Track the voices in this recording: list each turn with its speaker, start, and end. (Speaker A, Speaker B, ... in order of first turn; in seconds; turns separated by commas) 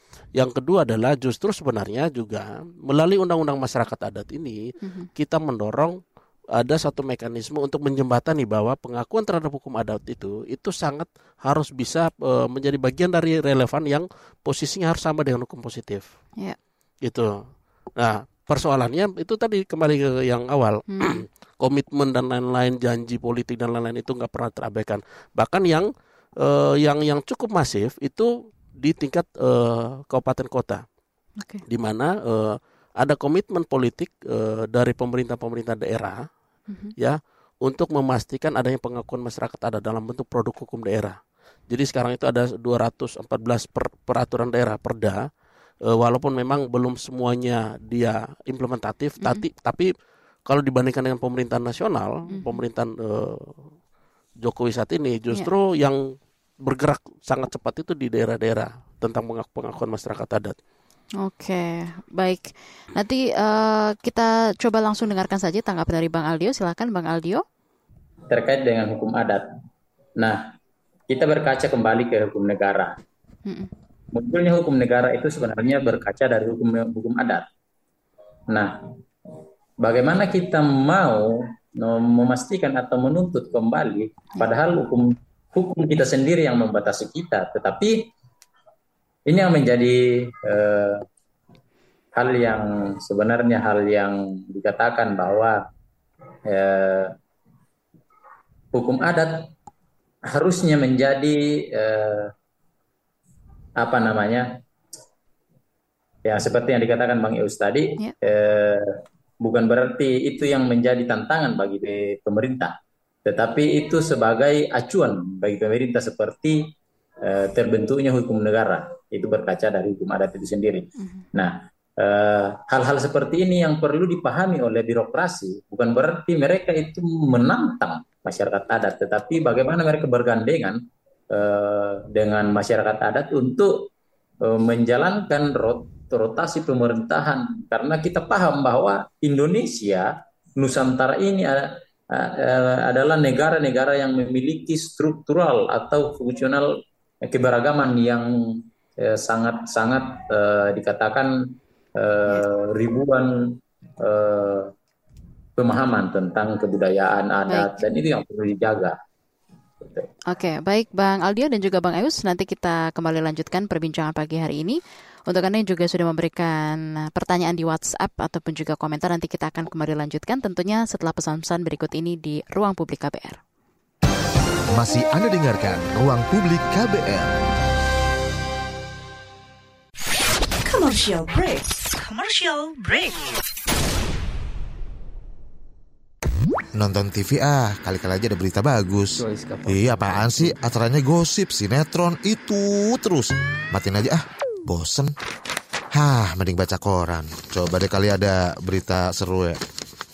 Speaker A: 0.4-4.6, Speaker B: 4.8-5.1, Speaker A: 5.2-6.0, Speaker A: 6.6-16.1, Speaker A: 17.0-17.4, Speaker A: 18.0-30.8, Speaker B: 20.9-21.2, Speaker A: 31.7-36.2, Speaker A: 37.0-41.2, Speaker A: 41.7-45.3, Speaker A: 45.9-49.9, Speaker A: 50.5-53.5, Speaker B: 52.3-52.6, Speaker A: 54.4-56.0, Speaker A: 56.6-60.6, Speaker B: 61.2-67.4, Speaker C: 68.3-69.5, Speaker C: 70.2-70.5, Speaker C: 71.1-73.0, Speaker C: 74.1-77.5, Speaker C: 78.5-78.9, Speaker C: 79.8-88.1, Speaker C: 89.3-91.0, Speaker C: 92.2-95.6, Speaker C: 96.5-97.2, Speaker C: 98.7-99.5, Speaker C: 100.3-102.3, Speaker C: 103.8-104.5, Speaker C: 106.2-116.7, Speaker C: 117.2-130.8, Speaker B: 121.0-121.2, Speaker C: 131.3-133.9, Speaker C: 134.4-154.7, Speaker C: 155.6-159.0, Speaker B: 157.5-157.8, Speaker C: 159.8-160.1, Speaker B: 160.3-173.4, Speaker D: 174.7-177.3, Speaker E: 180.6-183.2, Speaker D: 186.7-195.1, Speaker D: 195.9-199.6